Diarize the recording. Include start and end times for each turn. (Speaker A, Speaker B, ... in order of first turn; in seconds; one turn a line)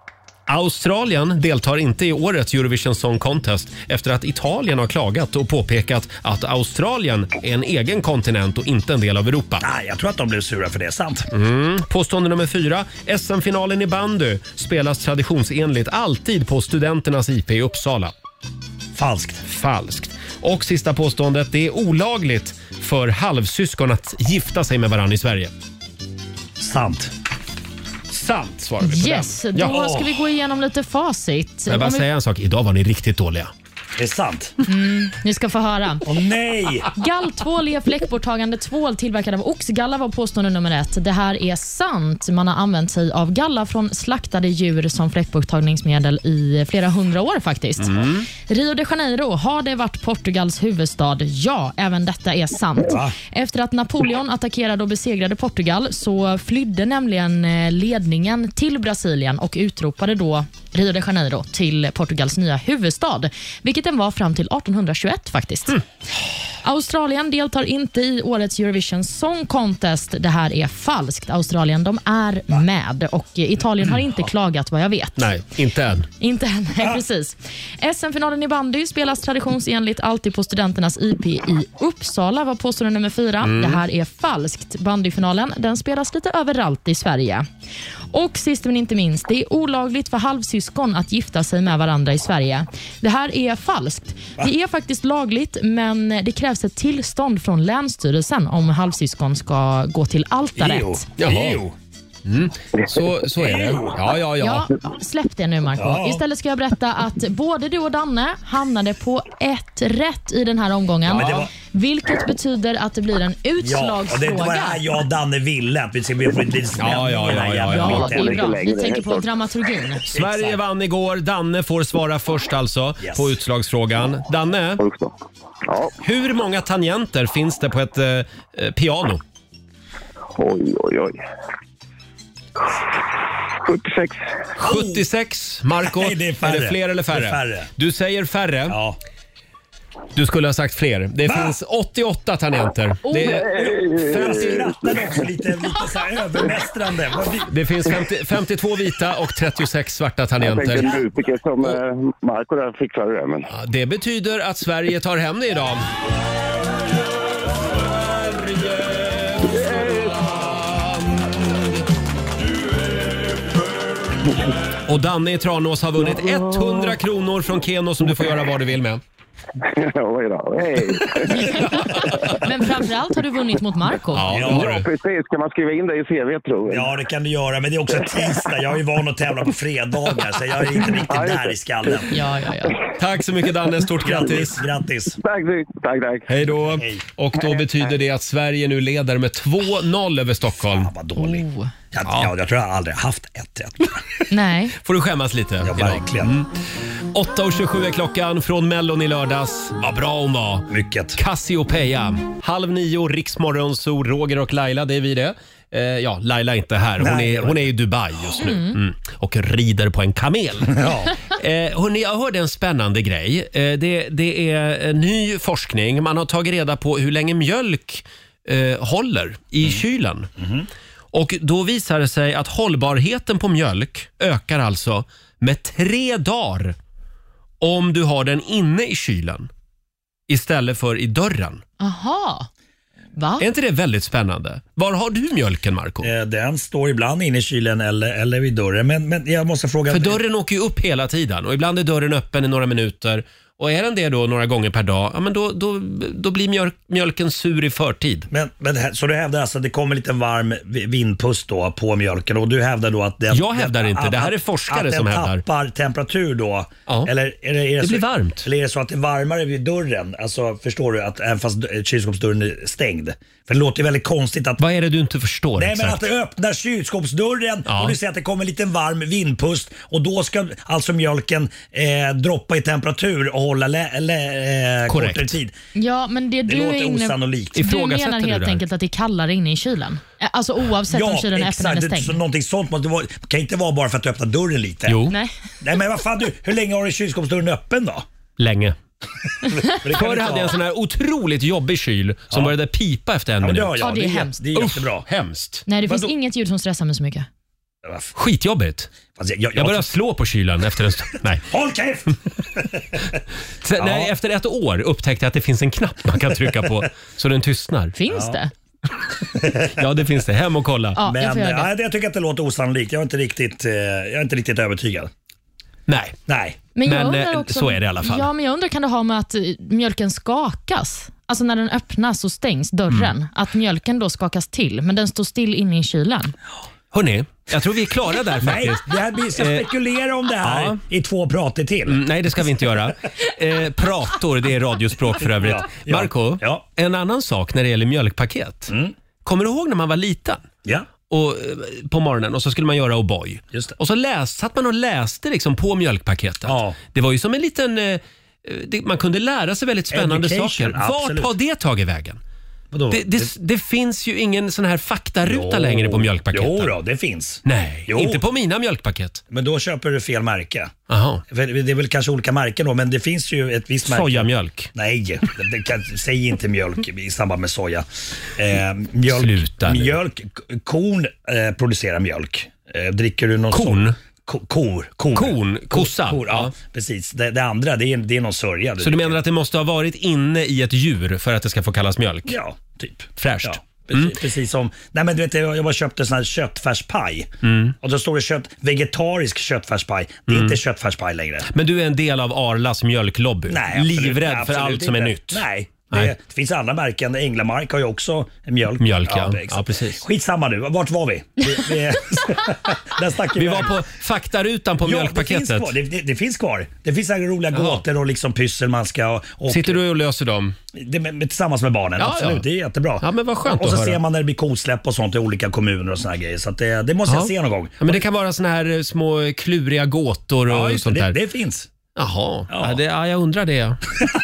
Speaker A: 0.5-9.7
Speaker B: 9.6-11.3
Speaker A: 11.3-18.1
Speaker B: 18.9-19.4
Speaker A: 19.4-25.5
Speaker B: 26.6-27.1
Speaker A: 28.1-29.8
Speaker C: 28.8-32.1
Speaker B: 29.6-30.1
Speaker A: 31.7-33.5
Speaker B: 34.0-34.5
Speaker C: 34.7-36.0
Speaker B: 36.0-36.9
Speaker C: 36.9-65.8
Speaker A: 47.8-48.3
Speaker B: 52.9-53.1
Speaker C: 66.6-75.3
Speaker A: 75.2-76.1
Speaker C: 76.2-87.5
Speaker A: 83.4-83.8
Speaker C: 88.1-101.0
Speaker B: 100.6-101.7
Speaker A: 101.2-101.6
Speaker A: 102.2-104.7
Speaker B: 103.4-104.0
Speaker C: 104.4-114.8
Speaker B: 105.8-106.2
Speaker B: 111.1-111.5
Speaker A: 111.1-111.4
Speaker B: 113.6-118.5
Speaker A: 116.8-118.2
Speaker C: 117.7-120.1
Speaker D: 117.9-119.2
Speaker B: 120.1-120.6
Speaker A: 120.1-124.8
Speaker B: 123.0-123.3
Speaker D: 124.8-125.1
Speaker D: 125.6-125.9
Speaker A: 126.0-129.2
Speaker D: 130.3-131.2
Speaker D: 133.6-134.3
Speaker A: 134.6-138.8
Speaker B: 134.6-135.0
Speaker B: 135.8-137.7
Speaker B: 138.7-139.0
Speaker A: 140.1-143.5
Speaker B: 141.3-141.5
Speaker C: 143.0-143.3
Speaker B: 143.3-147.5
Speaker D: 143.4-144.9
Speaker A: 144.1-144.7
Speaker A: 147.5-151.0
Speaker D: 150.4-153.5
Speaker A: 153.5-155.8
Speaker A: 158.0-161.4
Speaker D: 159.6-160.1
Speaker A: 164.9-169.0
Speaker D: 169.6-171.3
Speaker C: 171.3-174.3
Speaker A: 174.1-174.9
Speaker B: 174.3-174.8
Speaker D: 174.4-176.9
Speaker B: 176.7-182.2
Speaker D: 181.0-182.0
Speaker C: 182.1-182.8
Speaker A: 183.0-184.6
Speaker B: 184.0-185.2
Speaker D: 185.1-186.3
Speaker A: 186.3-190.9
Speaker B: 186.7-187.0
Speaker B: 190.7-194.0
Speaker C: 191.2-191.7
Speaker A: 192.1-192.3
Speaker C: 194.3-194.7
Speaker A: 194.7-196.5
Speaker B: 195.6-196.3
Speaker A: 197.1-220.3
Speaker B: 200.7-201.2
Speaker B: 207.0-207.7
Speaker C: 208.4-208.8
Speaker B: 210.7-211.1
Speaker B: 220.4-220.7
Speaker A: 221.1-226.8
Speaker A: 227.6-229.5
Speaker A: 230.3-231.6
Speaker C: 231.8-232.5
Speaker C: 233.2-233.4
Speaker A: 233.4-236.1
Speaker B: 236.0-240.2
Speaker A: 239.9-248.3
Speaker B: 248.3-264.6
Speaker A: 253.3-255.4
Speaker A: 257.8-258.5
Speaker A: 264.6-266.1
Speaker B: 265.6-275.5
Speaker A: 267.7-268.0
Speaker A: 274.9-275.4
Speaker C: 275.7-282.2
Speaker B: 276.5-277.6
Speaker A: 277.5-278.6
Speaker B: 280.9-285.0
Speaker A: 284.9-285.1
Speaker B: 285.6-288.0
Speaker A: 288.4-288.8
Speaker B: 289.4-290.6
Speaker A: 289.8-293.8
Speaker B: 293.4-295.1
Speaker C: 293.8-294.4
Speaker A: 294.5-295.6
Speaker C: 295.7-297.3
Speaker B: 297.8-298.1
Speaker A: 298.1-298.9
Speaker B: 299.1-299.9
Speaker A: 299.5-301.4
Speaker B: 301.5-303.0
Speaker A: 303.6-307.9
Speaker B: 303.8-304.1
Speaker C: 307.9-308.5
Speaker B: 308.1-308.4
Speaker B: 309.3-309.8
Speaker A: 309.7-311.0
Speaker C: 310.9-311.7
Speaker B: 311.0-315.1
Speaker A: 315.9-316.2
Speaker B: 316.3-316.6
Speaker C: 316.7-326.3
Speaker A: 316.8-318.3
Speaker A: 326.9-329.7
Speaker B: 328.4-332.0
Speaker A: 330.4-330.8
Speaker A: 331.9-338.7
Speaker B: 335.4-336.6
Speaker B: 338.7-338.9
Speaker A: 339.2-340.4
Speaker A: 341.1-352.2
Speaker B: 346.4-346.8
Speaker B: 349.9-351.3
Speaker B: 352.7-353.3
Speaker A: 352.9-356.7
Speaker B: 355.2-358.2
Speaker A: 357.4-359.2
Speaker B: 359.3-360.7
Speaker A: 360.9-361.2
Speaker B: 361.3-379.2
Speaker A: 363.8-364.7
Speaker A: 369.1-370.0
Speaker A: 373.5-373.9
Speaker A: 375.1-376.5
Speaker A: 378.8-382.4
Speaker B: 382.3-391.5
Speaker A: 383.2-384.2
Speaker A: 387.4-387.7
Speaker A: 390.3-390.6
Speaker A: 391.5-396.1
Speaker B: 393.5-403.8
Speaker A: 398.8-400.0
Speaker A: 403.3-405.7
Speaker B: 404.8-409.8
Speaker A: 407.5-407.8
Speaker A: 409.5-410.6
Speaker B: 410.7-418.0
Speaker A: 412.0-412.4
Speaker A: 413.0-414.0
Speaker A: 417.1-421.2
Speaker B: 420.5-421.7
Speaker A: 421.9-423.8
Speaker B: 422.5-422.8